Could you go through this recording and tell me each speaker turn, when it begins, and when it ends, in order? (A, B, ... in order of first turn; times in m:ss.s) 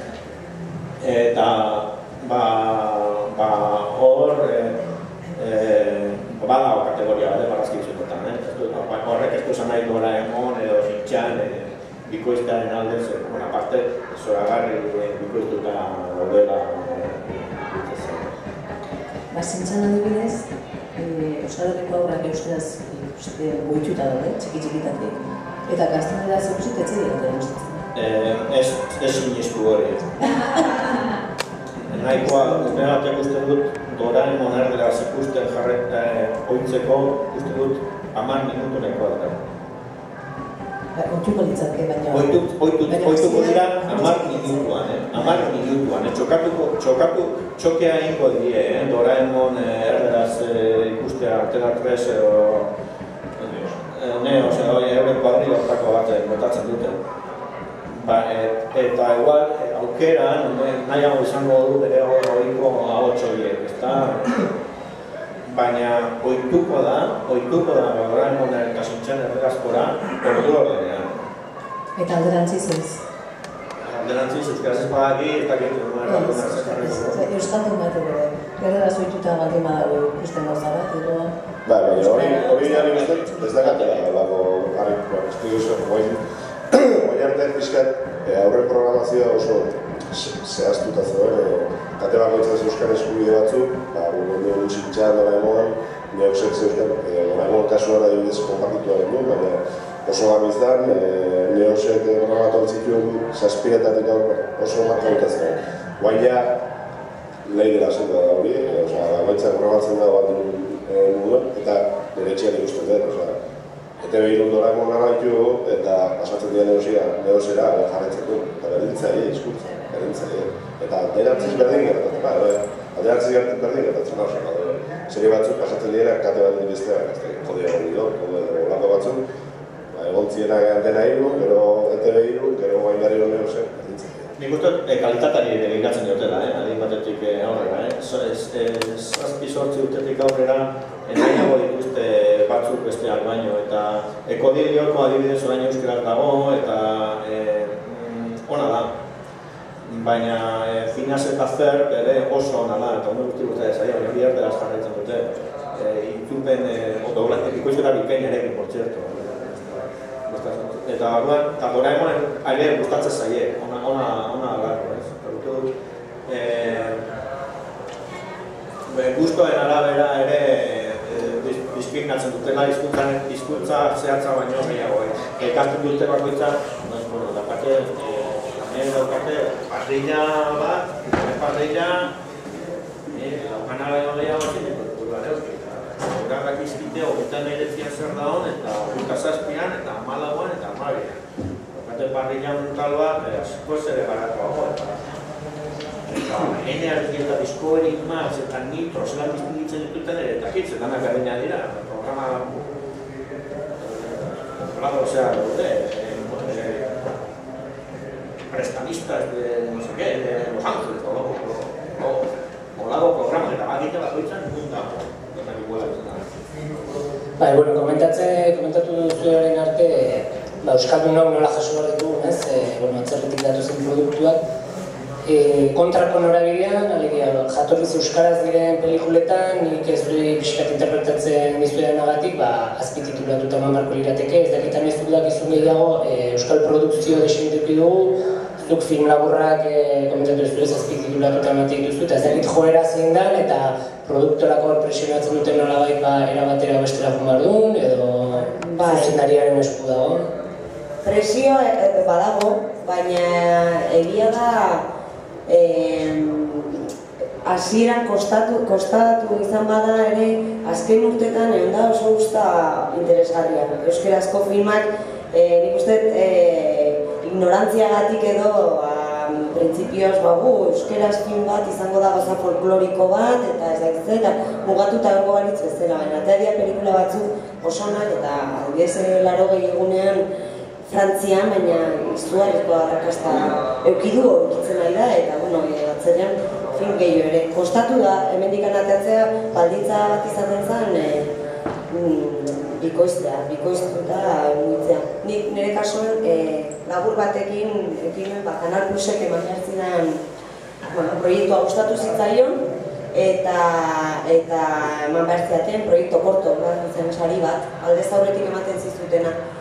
0:01.0-0:04.7 A
0:05.4-0:18.3 A
0:19.3-0:27.8 B
0:27.9-0:30.1 A
0:30.3-0:31.0 B
0:31.9-0:39.4 A
0:32.2-0:32.8 B
0:40.9-0:45.6 B
0:42.1-0:52.7 A
0:53.4-0:57.0 A
0:57.8-1:04.5 A
1:05.5-1:11.2 A
1:12.0-1:13.0 B
1:13.8-1:17.2 A
1:16.0-1:21.3 B
1:21.6-1:46.6 C
1:22.0-1:22.9 B
1:22.8-1:24.0 A
1:47.4-1:53.4 C
1:54.0-2:09.2 C
2:09.9-2:14.3 C
2:14.4-2:28.9 A
2:29.8-2:45.7 A
2:46.3-2:47.0 A
2:48.9-3:02.1 A
3:03.1-3:11.2 A
3:11.7-3:14.9 A
3:16.1-3:22.7 A
3:23.8-3:27.1 A
3:28.5-3:36.4 A
3:37.4-3:44.4 D
3:45.2-4:10.3 D
4:08.8-4:09.1 E
4:11.0-4:14.8 E
4:15.5-4:16.8 E
4:17.4-4:40.2 E
4:40.9-4:51.3 E
4:51.9-5:00.2 E
5:00.8-5:02.6 E
5:03.1-5:09.3 E